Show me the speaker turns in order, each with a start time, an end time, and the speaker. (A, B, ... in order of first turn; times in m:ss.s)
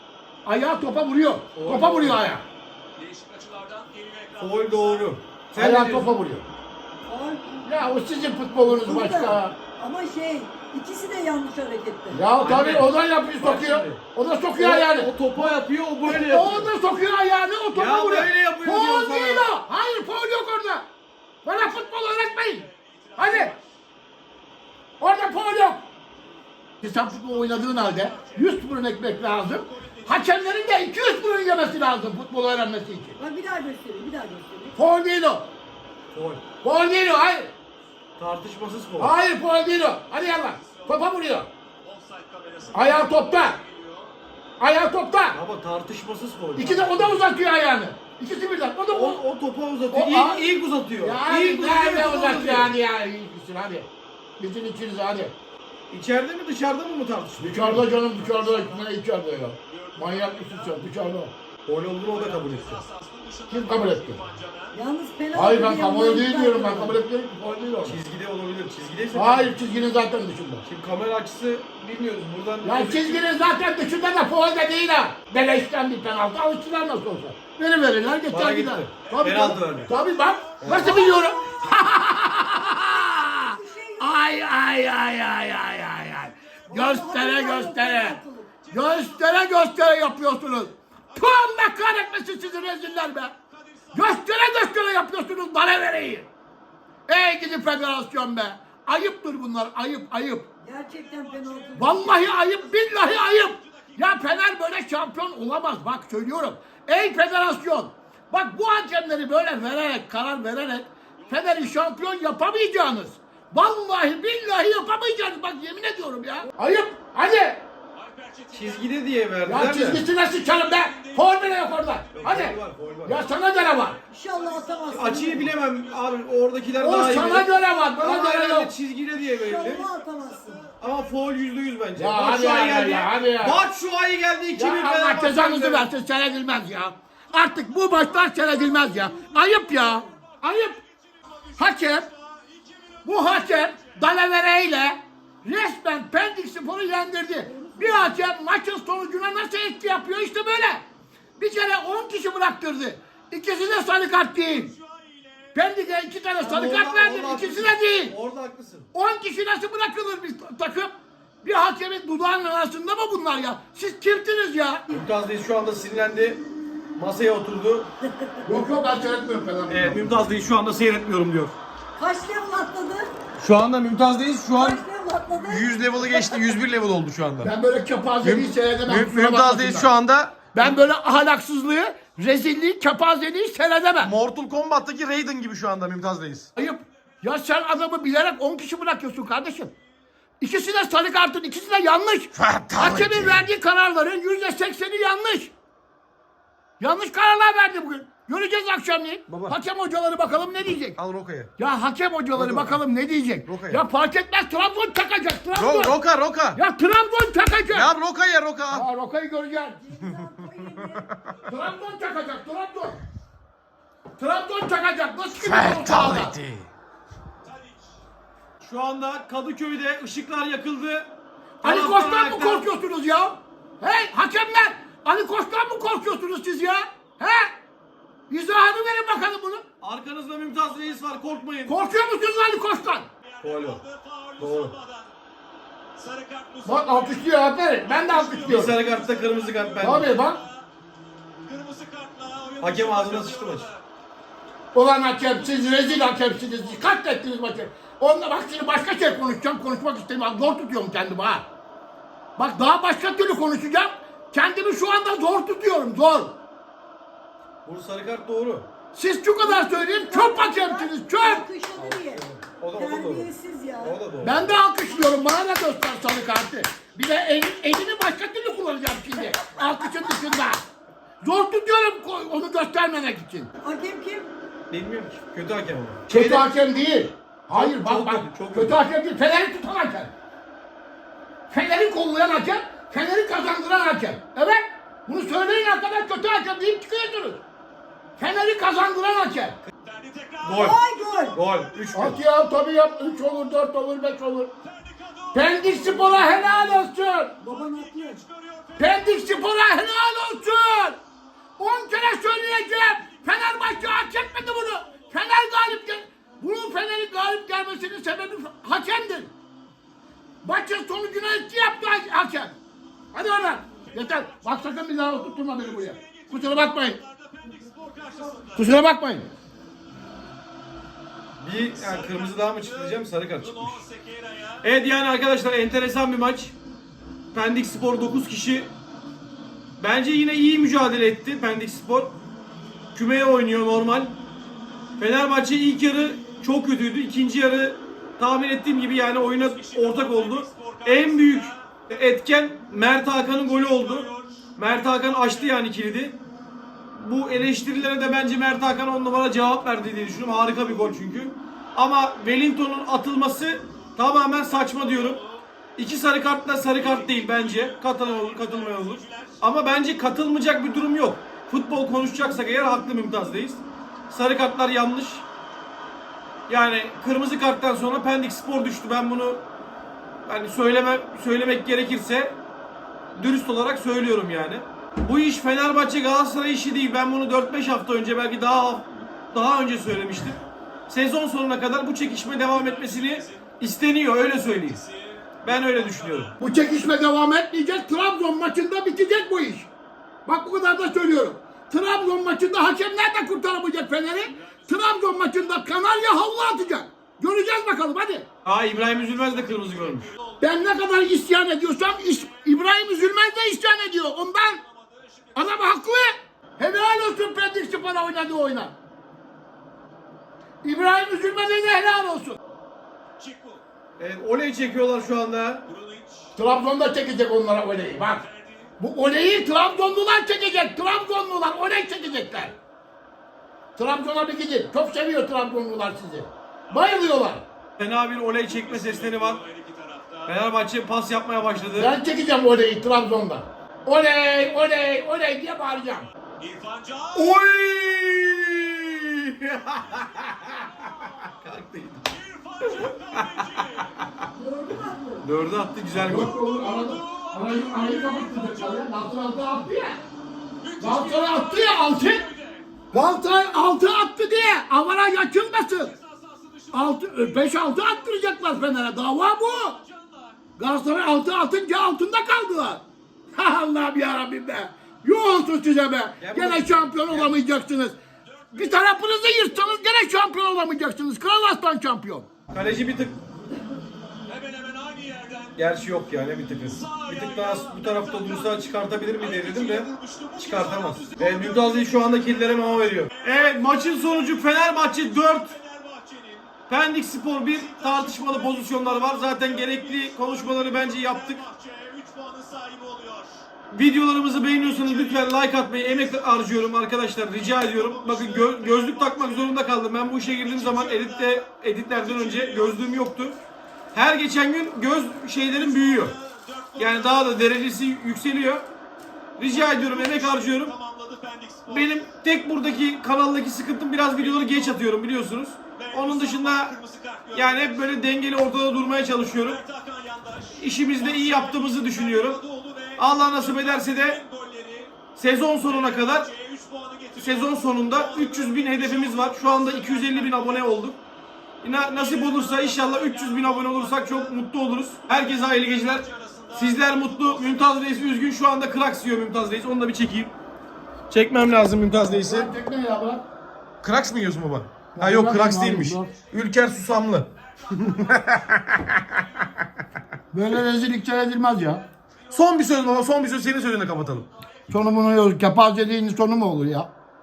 0:00.4-0:02.4 A
0:01.5-0:02.2 B
0:03.0-0:05.2 C
0:04.4-0:06.1 B
0:05.5-0:06.5 A
0:07.0-0:07.7 D
0:07.6-0:09.6 A
0:08.6-0:12.2 D
0:12.1-0:15.1 A
0:12.4-0:14.0 B
0:14.6-0:16.7 B
0:16.0-0:20.8 A
0:17.7-0:19.5 B
0:21.4-0:23.5 A
0:21.5-0:23.6 C
0:25.0-0:25.8 A
0:26.8-0:33.2 A
0:27.0-0:31.5 C
0:33.2-0:34.8 D
0:34.7-0:35.5 A
0:36.1-0:36.4 B
0:36.6-0:37.5 A
0:38.2-0:39.1 B
0:39.0-0:41.5 A
0:40.6-0:41.0 C
0:41.8-0:44.1 C
0:42.7-0:43.6 A
0:44.6-0:45.4 A
0:45.3-0:47.2 B
0:46.6-0:49.2 A
0:48.9-0:52.7 B
0:49.9-0:50.5 A
0:51.0-0:55.3 A
0:55.9-0:57.9 B
0:57.4-1:01.3 A
0:57.9-0:59.0 C
0:59.7-1:00.9 C
1:01.6-1:02.8 B
1:02.1-1:04.8 C
1:03.5-1:04.2 A
1:04.7-1:07.0 D
1:05.3-1:08.0 A
1:07.8-1:09.5 B
1:09.1-1:10.6 A
1:10.6-1:13.2 B
1:12.6-1:28.2 A
1:18.3-1:19.9 B
1:20.6-1:21.1 B
1:20.7-1:21.8 D
1:23.5-1:24.1 D
1:26.7-1:28.5 D
1:28.6-1:29.6 C
1:28.7-1:33.3 A
1:32.1-1:32.9 C
1:33.5-1:34.7 C
1:33.9-1:36.3 A
1:37.1-1:40.4 A
1:40.6-1:42.4 D
1:41.3-1:44.2 C
1:41.8-1:57.6 A
1:51.2-1:51.7 C
1:58.0-1:58.9 C
1:58.5-2:00.0 B
1:59.4-2:04.0 A
1:59.8-2:02.5 C
2:02.1-2:03.2 B
2:03.3-2:06.2 C
2:04.1-2:05.5 D
2:04.9-2:09.9 B
2:06.8-2:08.7 A
2:09.2-2:10.7 D
2:10.3-2:10.7 C
2:10.8-2:15.9 B
2:12.0-2:13.6 A
2:14.6-2:20.8 A
2:18.4-2:20.1 D
2:21.3-2:23.6 C
2:21.6-2:22.1 A
2:23.0-2:30.8 A
2:27.4-2:28.1 D
2:31.4-2:34.7 A
2:34.7-2:35.4 C
2:35.5-2:38.1 A
2:36.4-2:38.9 B
2:38.9-2:44.8 A
2:44.9-2:46.4 B
2:47.0-2:47.9 B
2:48.0-2:48.5 D
2:48.4-2:50.2 A
2:49.7-2:51.5 B
2:52.0-2:53.1 D
2:53.4-2:54.8 B
2:54.5-2:56.5 D
2:55.4-2:57.5 B
2:57.4-2:59.9 A
2:58.2-3:00.8 B
3:00.5-3:04.1 A
3:04.0-3:06.5 B
3:06.6-3:09.7 A
3:10.4-3:15.5 A
3:12.4-3:13.4 B
3:16.8-3:21.0 A
3:19.3-3:19.6 B
3:21.0-3:21.5 B
3:21.6-3:26.0 A
3:22.3-3:22.8 B
3:23.4-3:23.8 B
3:25.5-3:26.6 B
3:26.5-3:27.9 A
3:27.7-3:28.9 B
3:28.7-3:29.8 A
3:29.8-3:31.1 D
3:30.0-3:31.2 B
3:31.4-3:33.0 A
3:34.2-3:36.4 A
3:35.4-3:36.7 B
3:37.5-3:37.7 C
3:38.6-3:42.6 B
3:41.6-3:47.5 A
3:48.3-3:49.6 A
3:49.8-3:51.8 B
3:51.7-3:53.1 A
3:53.3-3:55.1 C
3:53.4-3:53.8 B
3:54.4-3:54.7 B
3:55.9-4:00.6 C
3:56.6-3:58.8 A
3:58.4-4:00.1 B
3:59.8-4:00.4 A
4:01.4-4:03.8 C
4:02.6-4:03.7 B
4:04.7-4:11.4 A
4:12.4-4:16.4 A
4:17.6-4:18.7 B
4:18.9-4:21.4 A
4:19.4-4:24.0 D
4:21.8-4:24.6 B
4:24.2-4:30.6 A
4:31.2-4:33.5 A
4:33.6-4:34.3 D
4:34.7-4:36.4 B
4:36.1-4:40.1 A
4:37.5-4:38.8 B
4:41.5-4:47.4 A
4:48.2-4:49.6 A
4:49.8-4:51.8 C
4:50.4-4:50.8 B
4:50.5-4:51.4 D
4:51.3-4:52.2 B
4:51.9-4:54.5 A
4:54.6-4:56.9 C
4:55.3-4:57.3 A
4:57.4-4:58.2 D
4:57.5-4:59.4 C
4:58.8-5:01.0 A
5:01.6-5:09.3 A
5:10.4-5:12.5 A
5:13.1-5:17.0 A
5:15.2-5:18.8 C
5:18.5-5:19.3 A
5:21.4-5:23.8 B
5:21.8-5:24.6 C
5:24.6-5:26.6 B
5:27.3-5:28.7 B
5:29.8-5:32.2 B
5:32.9-5:34.1 B
5:35.0-5:46.2 B
5:39.3-5:41.6 C
5:43.6-5:44.3 C
5:46.9-5:55.2 B
5:54.8-5:55.2 C
5:55.8-6:05.2 B
5:56.6-5:59.4 C
6:06.5-6:09.4 B
6:10.2-6:12.4 B
6:13.1-6:24.8 B
6:22.4-6:23.4 C
6:24.6-6:26.6 C
6:25.4-6:26.4 B
6:26.4-6:29.7 A
6:30.2-6:38.3 A
6:34.4-6:34.8 C
6:38.4-6:40.1 B
6:39.1-6:40.5 C
6:40.4-6:44.6 A
6:44.6-6:45.7 C
6:45.3-6:48.7 A
6:50.6-6:52.4 A
6:53.2-6:53.6 C
6:54.0-6:55.6 B
6:55.7-6:56.3 C
6:56.4-6:58.2 A
6:57.9-6:58.7 C
6:58.8-7:02.5 A
7:03.8-7:07.4 A
7:07.8-7:09.4 B
7:08.5-7:10.4 C
7:10.2-7:11.9 B
7:11.8-7:16.1 A
7:16.4-7:17.3 C
7:17.1-7:22.1 B
7:22.1-7:24.3 C
7:22.6-7:23.6 B
7:24.3-7:25.3 D
7:25.2-7:26.3 B
7:25.9-7:30.0 A
7:26.5-7:28.8 C
7:30.6-7:32.8 C
7:30.8-7:32.2 A
7:32.9-7:35.9 A
7:35.8-7:38.6 C
7:36.7-7:39.8 A
7:39.5-7:40.4 C
7:40.6-7:48.0 A
7:46.2-7:47.3 B
7:48.5-7:48.8 C
7:48.5-7:52.3 A
7:52.5-7:53.2 B
7:54.3-7:55.7 C
7:55.6-8:05.6 B
7:56.7-8:06.6 C
8:06.7-8:11.4 B
8:07.4-8:13.5 C
8:13.7-8:23.4 B
8:14.6-8:16.2 C
8:17.3-8:23.0 C
8:23.9-8:26.1 B
8:25.4-8:27.5 C
8:26.8-8:28.6 B
8:29.4-8:30.7 B
8:29.5-8:32.0 C
8:31.7-8:36.7 B
8:34.1-8:34.8 C
8:35.7-8:38.1 C
8:37.3-8:39.6 B
8:39.2-8:45.0 C
8:40.6-8:42.4 B
8:43.0-8:44.2 B
8:45.1-8:46.3 B
8:45.6-8:50.7 C
8:47.2-8:51.0 B
8:51.6-9:00.3 B
8:51.8-8:54.4 C
8:55.1-8:58.1 C
9:01.1-9:02.5 B
9:02.0-9:03.2 A
9:03.8-9:09.2 B
9:05.0-9:06.1 A
9:07.6-9:09.5 C
9:10.3-9:11.8 A
9:12.3-9:14.3 B
9:14.7-9:16.9 A